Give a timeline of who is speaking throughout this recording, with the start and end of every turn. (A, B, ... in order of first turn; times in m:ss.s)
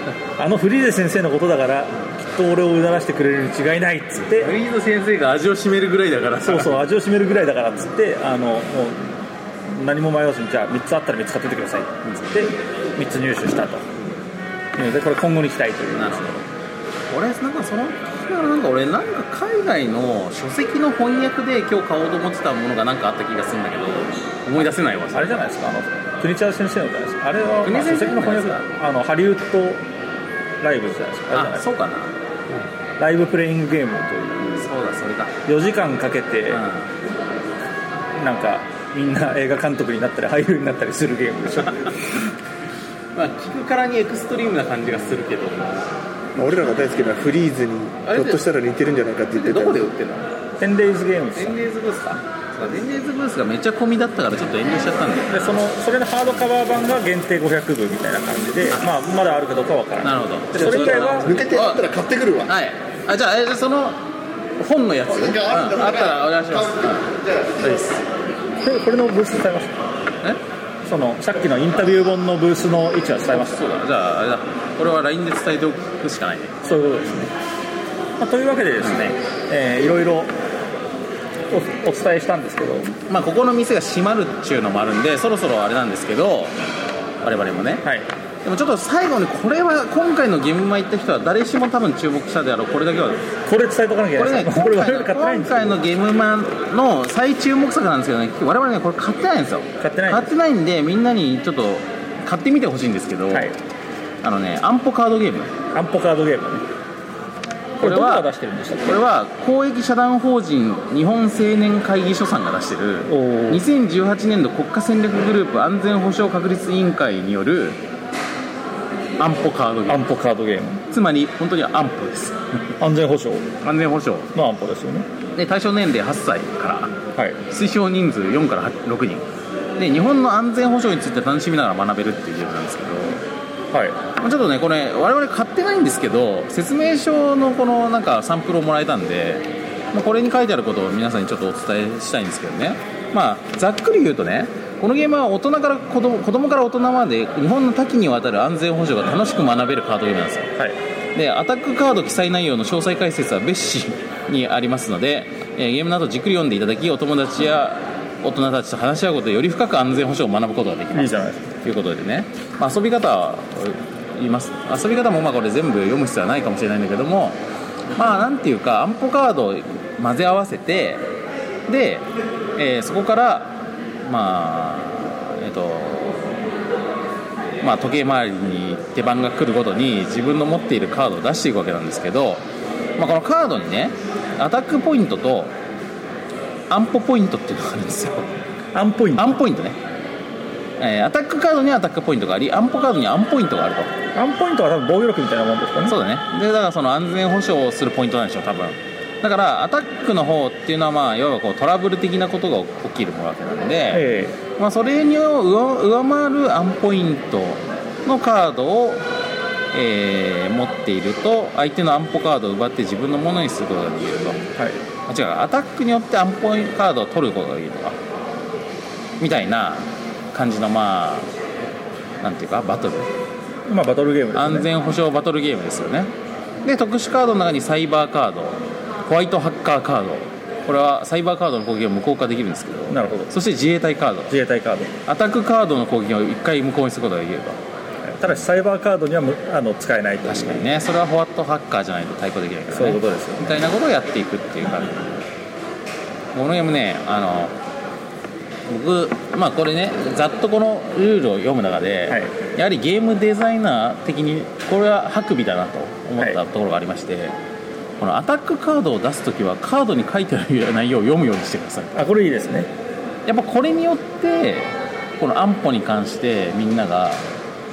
0:00.4-0:04.5 A
0:04.4-0:06.8 B
0:06.4-0:13.8 A
0:14.8-0:16.4 A
0:15.9-0:16.4 B
0:17.1-0:25.4 B
0:25.1-0:29.8 A
0:27.6-0:28.6 B
0:30.6-0:31.6 A
0:31.3-0:32.1 B
0:33.0-0:34.6 A
0:34.6-0:35.4 B
0:35.4-0:36.6 A
0:36.5-0:36.9 B
0:38.2-0:42.1 A
0:43.1-0:45.9 B
0:46.4-0:49.8 C
0:48.0-0:48.4 B
0:49.4-0:50.3 B
0:50.6-0:51.6 A
0:51.3-0:55.3 B
0:55.3-1:01.3 A
1:00.0-1:01.9 B
1:00.6-1:02.5 C
1:02.4-1:04.0 B
1:04.6-1:08.0 B
1:08.6-1:09.8 A
1:10.8-1:13.6 A
1:13.3-1:16.6 B
1:16.6-1:17.3 A
1:18.2-1:20.3 A
1:21.5-1:22.9 A
1:23.1-1:26.5 B
1:27.2-1:27.8 B
1:28.4-1:33.3 B
1:33.4-1:35.8 A
1:34.2-1:43.5 B
1:39.8-1:40.3 A
1:44.2-1:45.5 B
1:45.7-1:46.6 A
1:47.8-1:48.3 B
1:47.8-1:49.0 A
1:48.8-1:57.8 B
1:53.1-1:53.6 A
1:59.2-2:00.0 B
1:59.9-2:00.8 A
2:00.9-2:02.4 B
2:02.8-2:03.5 A
2:03.6-2:04.3 B
2:04.3-2:05.1 A
2:05.3-2:06.9 B
2:07.5-2:09.2 B
2:09.8-2:13.2 B
2:13.7-2:14.0 A
2:14.2-2:30.5 B
2:31.1-2:47.4 B
2:40.9-2:41.5 A
2:47.9-2:51.0 B
2:51.7-2:56.3 B
2:57.6-3:02.4 B
3:03.0-3:05.5 B
3:06.7-3:08.4 B
3:08.7-3:09.4 A
3:09.2-3:09.8 B
3:10.8-3:13.9 B
3:14.1-3:15.9 A
3:15.9-3:24.0 B
3:23.9-3:24.4 A
3:24.6-3:29.0 B
3:29.7-3:34.4 B
3:34.6-3:34.8 A
3:35.1-3:38.0 B
3:39.2-3:41.3 B
3:42.2-3:43.1 B
3:43.7-3:44.7 A
3:44.3-3:46.1 B
3:46.6-3:54.3 B
3:52.9-3:53.3 A
3:54.3-3:54.9 A
3:55.0-3:57.6 B
3:58.1-4:00.6 A
4:00.2-4:05.2 B
4:02.7-4:03.7 A
4:06.3-4:07.5 B
4:08.7-4:17.3 B
4:12.1-4:12.3 A
4:18.0-4:22.0 B
4:21.9-4:22.7 A
4:23.2-4:27.2 B